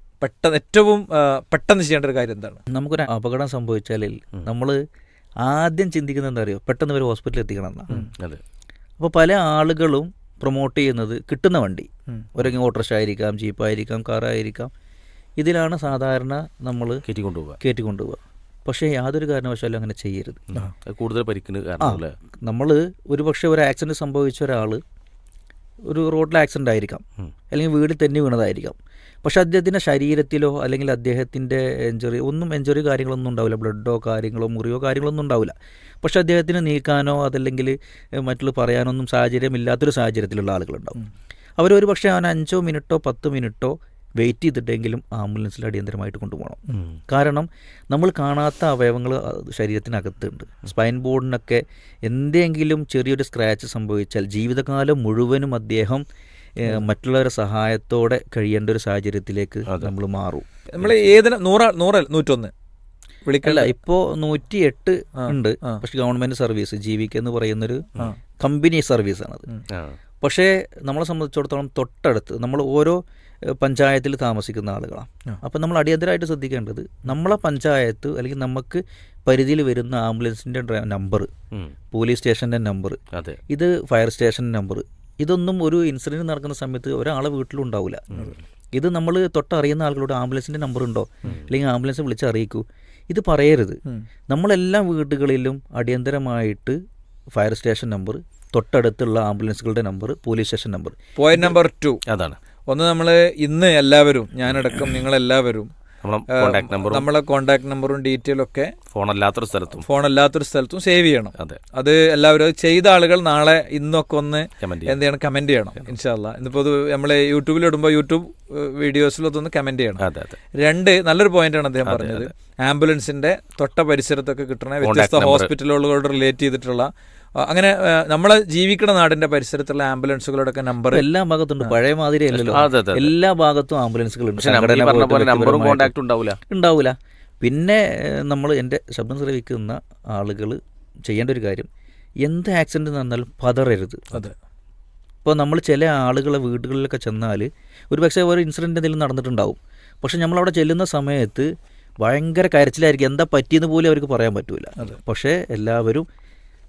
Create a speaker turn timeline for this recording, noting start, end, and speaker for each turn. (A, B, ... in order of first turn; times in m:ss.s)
0:00.2-0:02.6 A
0:02.7-0:04.8 B
0:05.4-0:08.1 B
0:08.1-0:08.4 C
0:09.0-0:14.7 B
0:15.4-0:17.0 B
0:17.1-0:17.6 C
0:17.6-0:20.4 B
0:20.5-0:22.1 C
0:21.8-0:24.8 B
0:25.9-0:41.0 B
0:41.6-0:56.0 B
0:56.6-1:00.4 B
1:00.7-1:02.5 A
1:00.8-1:01.1 C
1:03.2-1:03.7 A
1:03.4-1:09.5 B
1:05.2-1:05.8 A
1:09.7-1:10.0 C
1:10.2-1:13.0 B
1:13.5-1:21.3 B
1:21.9-1:36.8 B
1:23.1-1:23.4 C
1:37.3-1:41.5 B
1:41.2-1:42.0 A
1:42.1-1:42.4 C
1:42.7-1:45.7 A
1:46.0-1:47.1 C
1:46.3-1:48.7 A
1:48.9-1:49.8 C
1:49.8-2:11.0 A
1:54.6-1:55.0 C
2:00.0-2:00.4 C
2:01.8-2:02.3 C
2:04.8-2:05.5 C
2:10.9-2:15.9 B
2:12.3-2:13.1 C
2:14.4-2:16.4 C
2:16.5-2:21.7 B
2:22.2-2:24.2 B
2:25.2-2:36.0 B